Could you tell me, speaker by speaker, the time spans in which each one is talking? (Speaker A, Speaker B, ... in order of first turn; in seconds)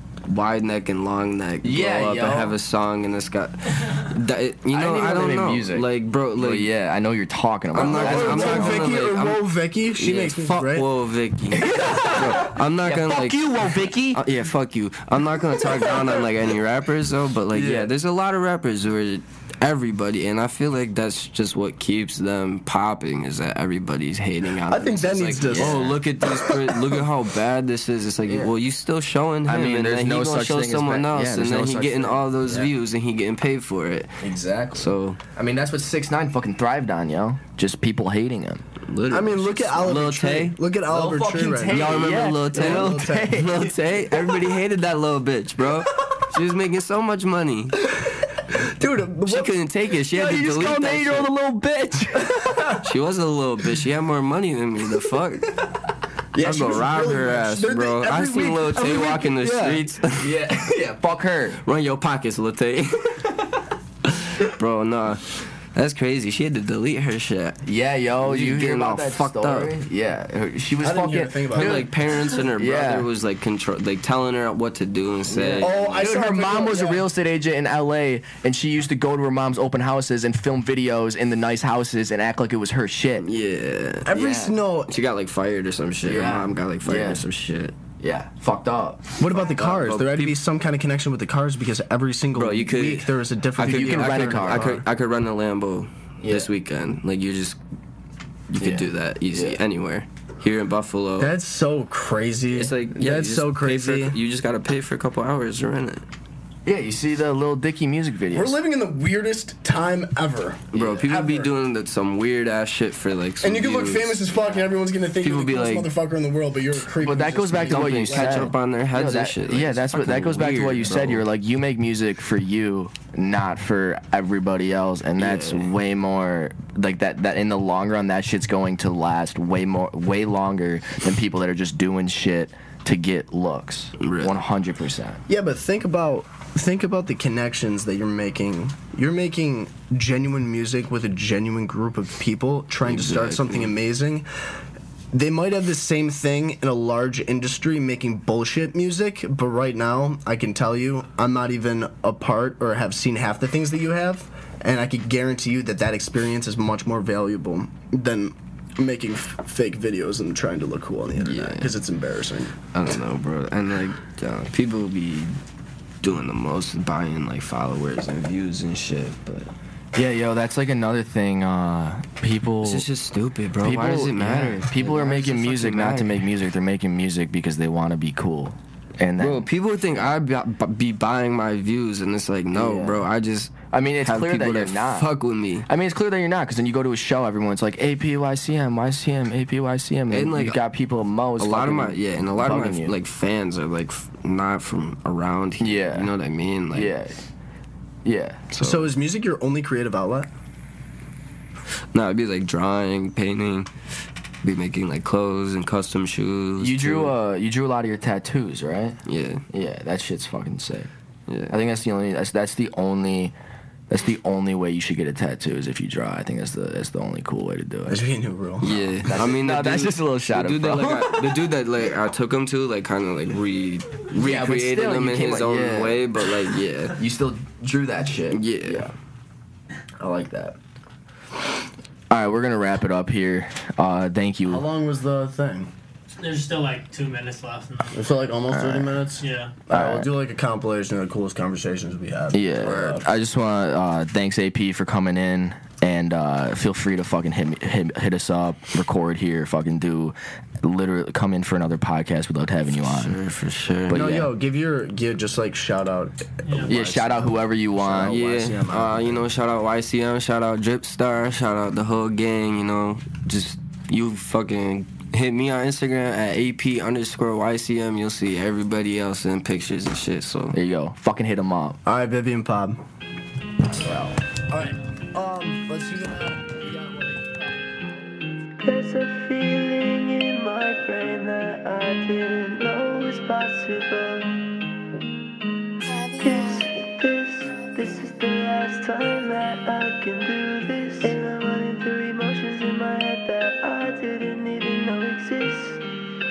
Speaker A: 0.3-6.7, 7.7-34.2, 34.8-35.2, 38.9-40.6, 41.7-47.8, 49.3-51.4, 52.8-55.5, 56.4-60.3, 61.6-63.4, 64.1-67.6, 68.2-69.7, 71.5-76.2, 83.2-84.2, 84.9-87.8, 89.5-90.4, 92.4-97.6, 98.5-101.3, 102.5-106.0, 110.7-114.3, 115.2-115.9, 117.6-121.2, 125.2-125.7, 134.0-134.4, 142.8-143.7, 161.2-161.7, 162.7-165.4, 166.0-169.5, 172.6-176.3, 179.2-185.7, 190.1-190.6, 191.4-196.9, 198.5-198.9, 201.9-203.7, 204.4-207.2, 209.1-209.4, 211.3-211.5, 218.6-227.0, 228.3-228.9, 252.8-254.1, 258.0-270.6
Speaker B: 1.6-2.6, 4.7-8.9, 11.6-14.2, 15.6-16.2, 17.5-17.9, 25.5-26.0, 28.3-28.5, 29.5-32.7, 34.2-38.6, 40.9-44.4, 50.1-52.8, 59.3-61.6, 67.6-73.1, 75.3-83.3, 84.1-84.5, 86.0-87.2, 88.0-89.2, 93.6-94.7, 96.2-96.5, 98.6-99.6, 106.7-108.6, 117.0-135.2, 169.9-172.9, 173.6-179.5, 182.5-183.0, 183.7-185.1, 185.7-192.9, 195.6-196.1, 196.7-197.2, 198.1-198.5, 206.6-209.0, 209.5-210.9, 211.5-213.3, 213.9-218.0, 218.7-221.3, 224.1-226.1, 226.9-228.9, 230.0-230.6, 232.1-234.7, 238.5-239.1, 239.7-240.1, 242.3-253.2, 253.9-254.3, 256.7-258.4, 270.5-271.8
Speaker C: 7.7-10.9, 24.7-26.9, 39.1-43.4, 48.5-49.5, 56.3-59.3, 70.8-71.9, 75.5-77.0, 84.0-85.0, 89.2-94.9, 101.2-104.2, 108.3-111.5, 113.4-118.5, 135.3-144.3, 145.1-162.6, 198.6-200.3, 217.9-218.8, 234.5-235.7, 237.9-243.1, 253.9-259.2, 271.9-272.8, 273.7-278.3
Speaker D: 236.2-238.0, 239.2-239.6, 256.5-256.7
Speaker E: 278.6-284.4, 286.2-295.8